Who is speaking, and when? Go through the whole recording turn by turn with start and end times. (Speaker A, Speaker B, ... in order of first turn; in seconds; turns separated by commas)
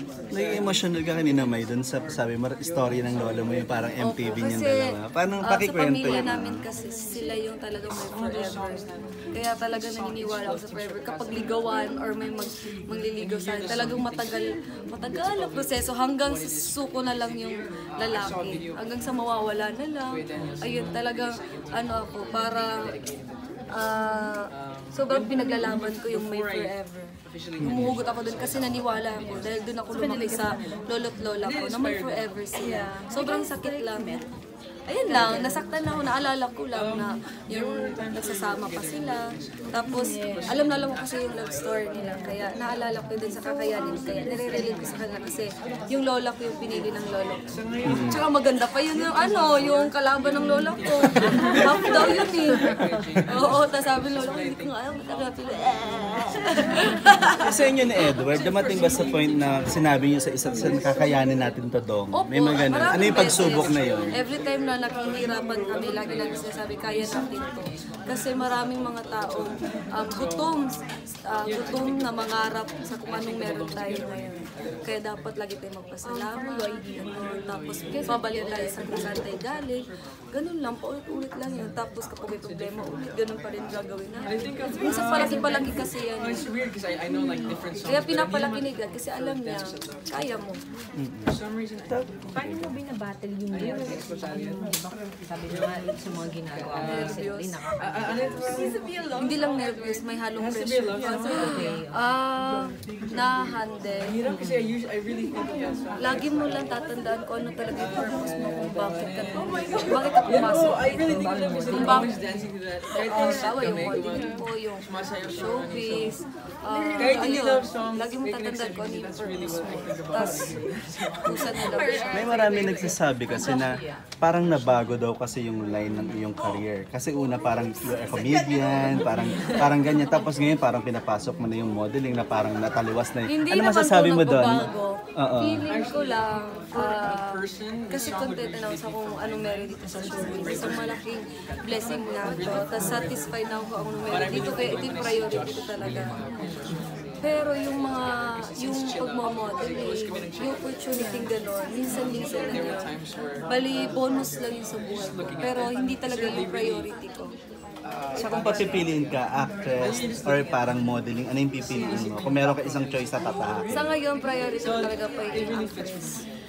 Speaker A: 0.3-6.6, Speaker B: 4.0-4.9, Speaker B: 5.4-22.8, Speaker B: 23.7-34.2, Speaker A: 27.6-28.0, Speaker C: 27.6-28.0, Speaker D: 30.0-30.4, Speaker D: 32.7-34.3, Speaker B: 34.9-57.4, Speaker D: 40.0-40.4, Speaker A: 47.9-48.2, Speaker C: 52.7-53.2, Speaker A: 57.4-64.2, Speaker B: 62.1-86.5, Speaker C: 63.5-64.0, Speaker D: 76.3-77.1, Speaker D: 77.9-78.9, Speaker C: 84.8-85.5, Speaker C: 87.2-87.5, Speaker B: 87.8-90.6, Speaker A: 91.0-91.4, Speaker A: 91.9-92.7, Speaker D: 92.4-97.8, Speaker C: 93.6-94.3, Speaker B: 96.8-97.6, Speaker C: 98.3-99.1, Speaker B: 99.2-104.2, Speaker C: 101.1-101.4, Speaker D: 101.3-101.8, Speaker C: 105.3-105.8, Speaker B: 106.0-112.2, Speaker C: 110.4-112.2, Speaker D: 111.2-111.7, Speaker B: 113.0-120.6, Speaker B: 121.2-122.9, Speaker A: 122.1-134.6, Speaker B: 133.3-146.1, Speaker A: 135.2-135.7, Speaker B: 147.2-152.9, Speaker B: 153.5-157.4, Speaker A: 158.2-163.9, Speaker C: 158.2-158.6, Speaker C: 159.8-160.5, Speaker C: 162.0-162.6, Speaker B: 163.7-166.2